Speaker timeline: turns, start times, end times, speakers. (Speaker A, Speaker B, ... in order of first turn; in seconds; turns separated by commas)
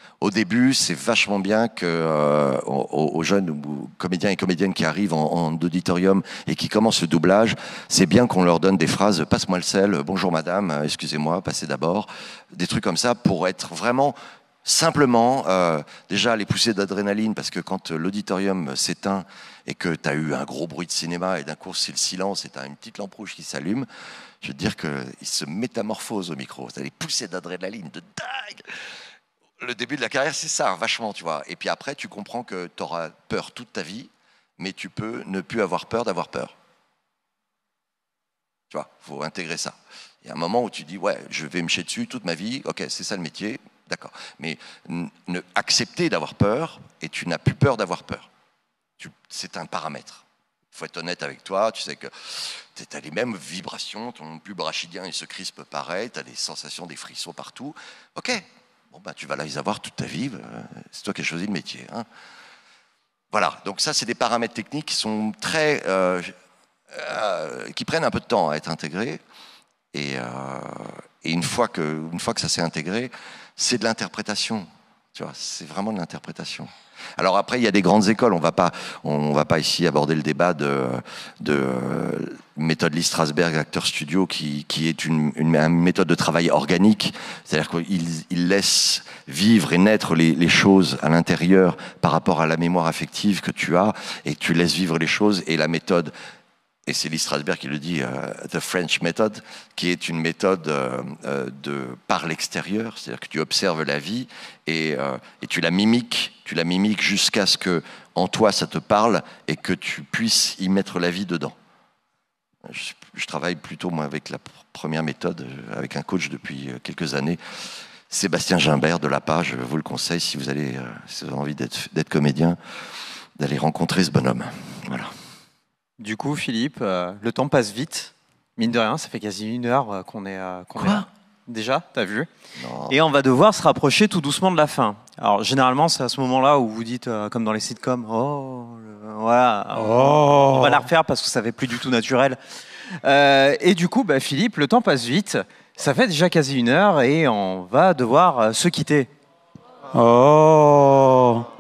Speaker A: 0.2-23.9, Speaker A: 24.4-28.8, Speaker A: 29.6-36.5, Speaker A: 38.7-48.3, Speaker A: 49.0-62.0, Speaker A: 63.3-66.3, Speaker A: 66.9-69.2, Speaker A: 69.9-96.1, Speaker A: 96.9-111.5, Speaker A: 112.6-117.4, Speaker A: 118.1-122.6, Speaker A: 123.4-125.1, Speaker B: 126.0-132.3, Speaker A: 130.8-131.1, Speaker A: 132.6-132.9, Speaker B: 132.9-142.4, Speaker C: 139.8-140.6, Speaker B: 143.0-149.1, Speaker C: 149.9-151.4